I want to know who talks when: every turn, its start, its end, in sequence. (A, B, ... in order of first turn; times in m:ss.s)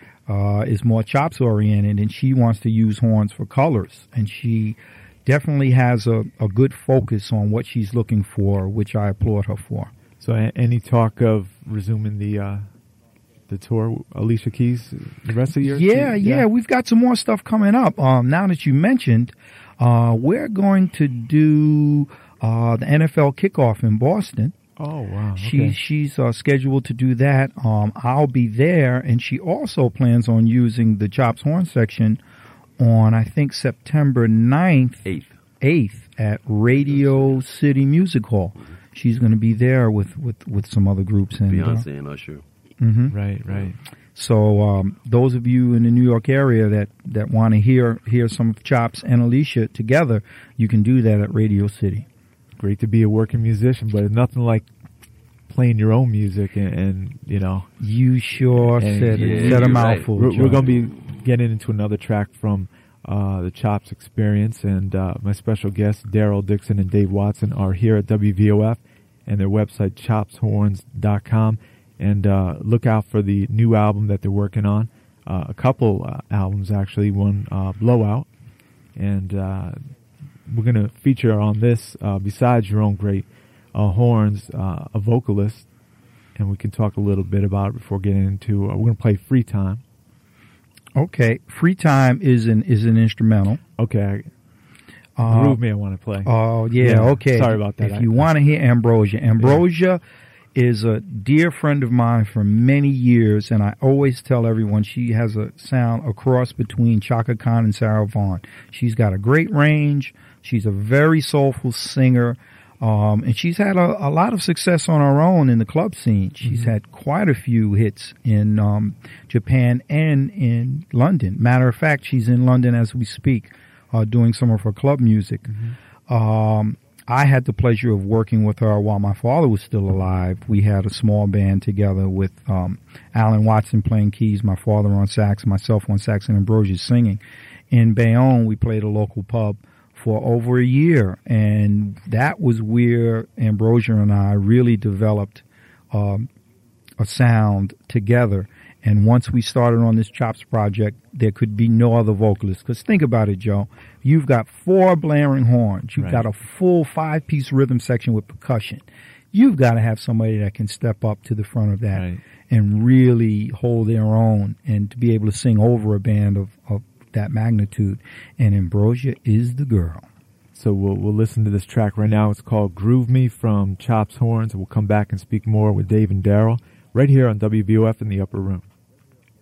0:00.3-0:09.9 A
0:10.2-0:12.7 B
0:13.5-0:16.5 B
0:15.6-0:24.6 A
0:24.8-0:25.8 B
0:25.4-0:32.2 A
0:32.8-0:35.1 A
0:35.1-0:35.3 C
0:35.6-0:41.9 A
0:37.0-0:37.4 C
0:41.5-0:42.4 C
0:42.8-0:43.2 A
0:43.1-0:43.8 B
0:44.2-0:52.1 A
0:52.6-0:54.7 B
0:55.5-0:57.7 B
0:57.8-1:00.6 A
0:58.7-0:59.6 B
0:59.1-1:00.5 C
1:00.2-1:18.3 B
1:19.0-1:19.8 B
1:20.5-1:25.7 B
1:26.4-1:29.8 B
1:31.0-1:33.6 A
1:33.8-1:34.3 B
1:35.2-1:35.6 A
1:35.2-1:38.1 B
1:36.2-1:40.0 A
1:40.6-2:05.5 A
1:56.4-1:56.7 B
2:05.5-2:05.8 B
2:06.1-2:26.3 A
2:27.0-2:50.0 A
2:36.0-2:36.2 B
2:41.9-2:42.2 B
2:50.6-2:58.7 B